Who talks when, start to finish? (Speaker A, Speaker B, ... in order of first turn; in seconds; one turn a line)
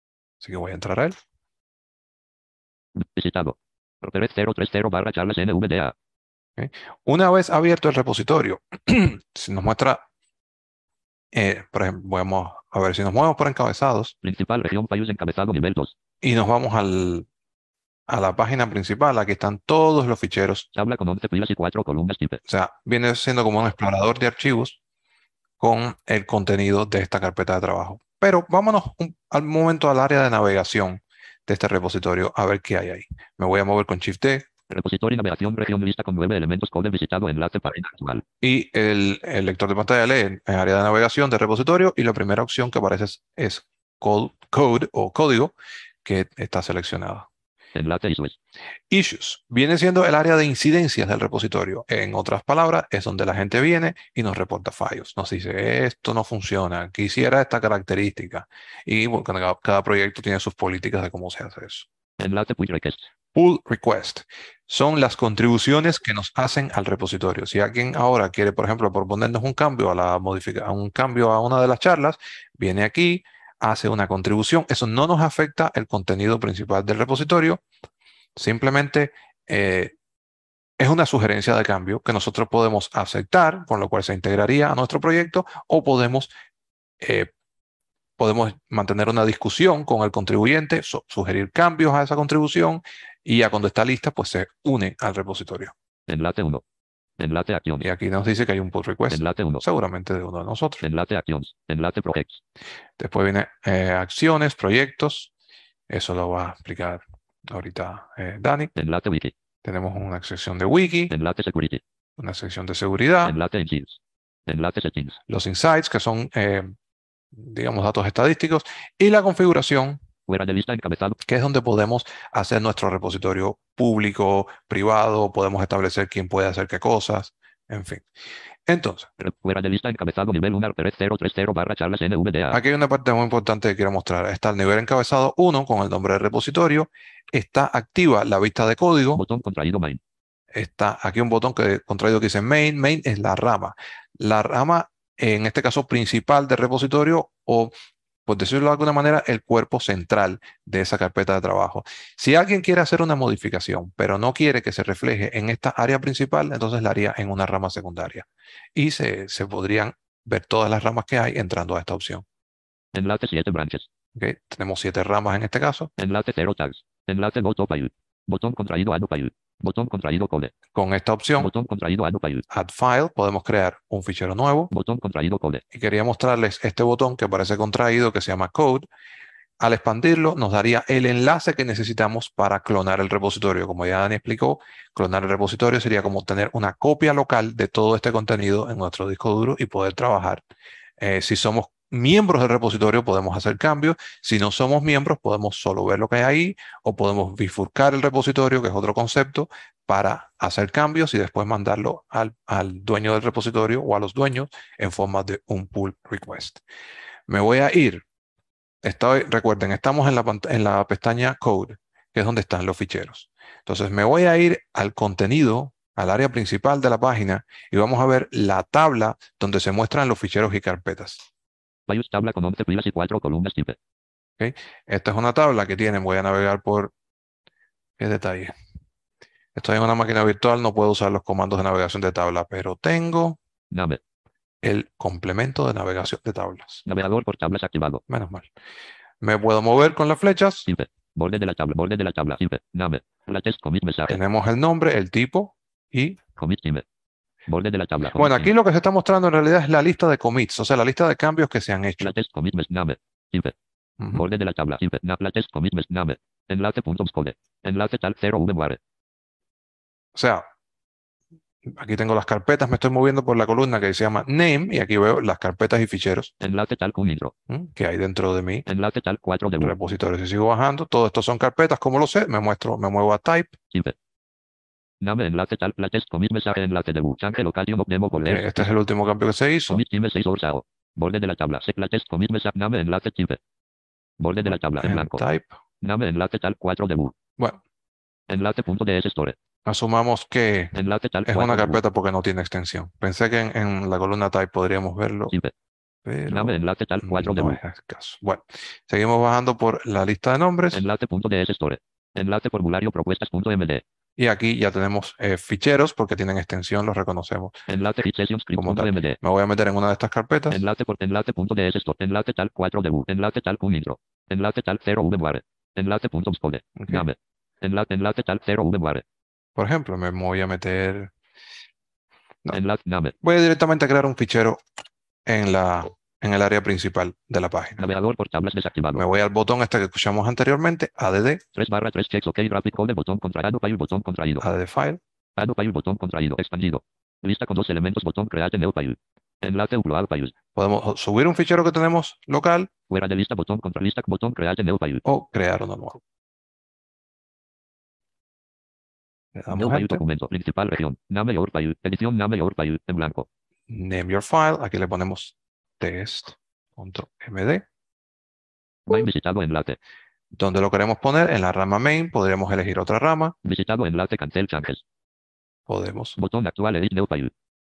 Speaker A: 0.4-1.2
Speaker B: 3.0-5.9
Speaker A: 6.6-10.1
Speaker A: 11.3-14.2
Speaker B: 14.2-15.9
Speaker A: 16.2-17.3
Speaker A: 18.1-20.7
Speaker B: 20.8-22.4
Speaker A: 22.5-24.8
Speaker A: 25.6-34.5
Speaker B: 34.7-38.2
Speaker A: 38.4-47.3
Speaker B: 47.8-48.4
Speaker A: 48.9-61.9
Speaker B: 62.2-63.1
Speaker A: 63.3-77.6
Speaker A: 78.4-79.9
Speaker A: 80.8-86.3
Speaker A: 87.0-87.3
Speaker A: 88.2-95.7
Speaker B: 96.1-96.6
Speaker B: 97.2-97.8
Speaker A: 97.8-100.8
Speaker B: 99.1-99.6
Speaker B: 100.8-102.4
Speaker A: 103.0-105.3
Speaker A: 105.9-108.7
Speaker B: 108.8-109.3
Speaker A: 109.6-111.1
Speaker B: 111.1-111.8
Speaker A: 112.2-113.4
Speaker B: 113.2-115.2
Speaker A: 115.3-116.7
Speaker A: 117.3-120.0
Speaker B: 120.3-121.2
Speaker A: 121.2-128.1
Speaker A: 128.7-129.1
Speaker B: 129.2-132.6
Speaker A: 132.5-139.2
Speaker B: 139.2-140.0
Speaker A: 140.5-147.7
Speaker A: 148.3-162.2
Speaker B: 162.9-163.9
Speaker A: 164.2-165.9
Speaker B: 166.0-170.6
Speaker A: 170.7-171.5
Speaker B: 171.4-172.4
Speaker A: 172.5-174.7
Speaker B: 174.7-175.6
Speaker A: 175.7-178.9
Speaker A: 179.6-190.4
Speaker A: 191.0-206.6
Speaker A: 207.3-208.0
Speaker A: 208.8-221.3
Speaker B: 221.9-223.8
Speaker A: 224.4-226.9
Speaker A: 228.0-228.5
Speaker A: 229.6-233.4
Speaker B: 233.7-234.0
Speaker A: 234.6-236.8
Speaker B: 236.9-238.0
Speaker A: 238.1-238.5
Speaker A: 239.2-240.7
Speaker B: 240.7-244.2
Speaker A: 244.1-246.2
Speaker B: 246.4-246.8
Speaker B: 247.5-248.5
Speaker A: 248.2-252.2
Speaker B: 252.0-253.5
Speaker A: 254.0-254.3
Speaker B: 254.1-258.8
Speaker A: 260.1-260.5
Speaker A: 261.6-266.3
Speaker B: 266.4-267.3
Speaker A: 267.5-268.7
Speaker B: 268.7-269.8
Speaker A: 269.6-273.6
Speaker B: 275.0-278.6
Speaker A: 278.2-279.8
Speaker B: 279.7-283.4
Speaker B: 284.2-285.2
Speaker A: 284.4-285.6
Speaker B: 285.8-287.1
Speaker B: 288.3-289.4
Speaker A: 289.7-295.4
Speaker B: 290.7-291.8
Speaker A: 296.1-300.8
Speaker B: 296.3-297.6
Speaker B: 300.7-303.8
Speaker A: 304.2-307.6
Speaker B: 307.7-309.2
Speaker A: 308.6-310.6
Speaker B: 310.5-319.0
Speaker A: 319.6-321.1
Speaker B: 322.5-323.1
Speaker A: 323.2-324.6
Speaker A: 325.3-327.9
Speaker B: 327.8-329.1
Speaker A: 328.9-331.4
Speaker B: 331.6-334.5
Speaker A: 334.4-335.0
Speaker B: 335.4-340.3
Speaker A: 340.6-342.7
Speaker B: 342.9-345.0
Speaker A: 345.1-346.0
Speaker A: 349.4-350.0
Speaker B: 349.5-353.3
Speaker A: 353.7-357.6
Speaker B: 358.9-359.8
Speaker A: 360.3-363.4
Speaker B: 363.4-364.8
Speaker A: 365.7-366.2
Speaker B: 366.2-367.3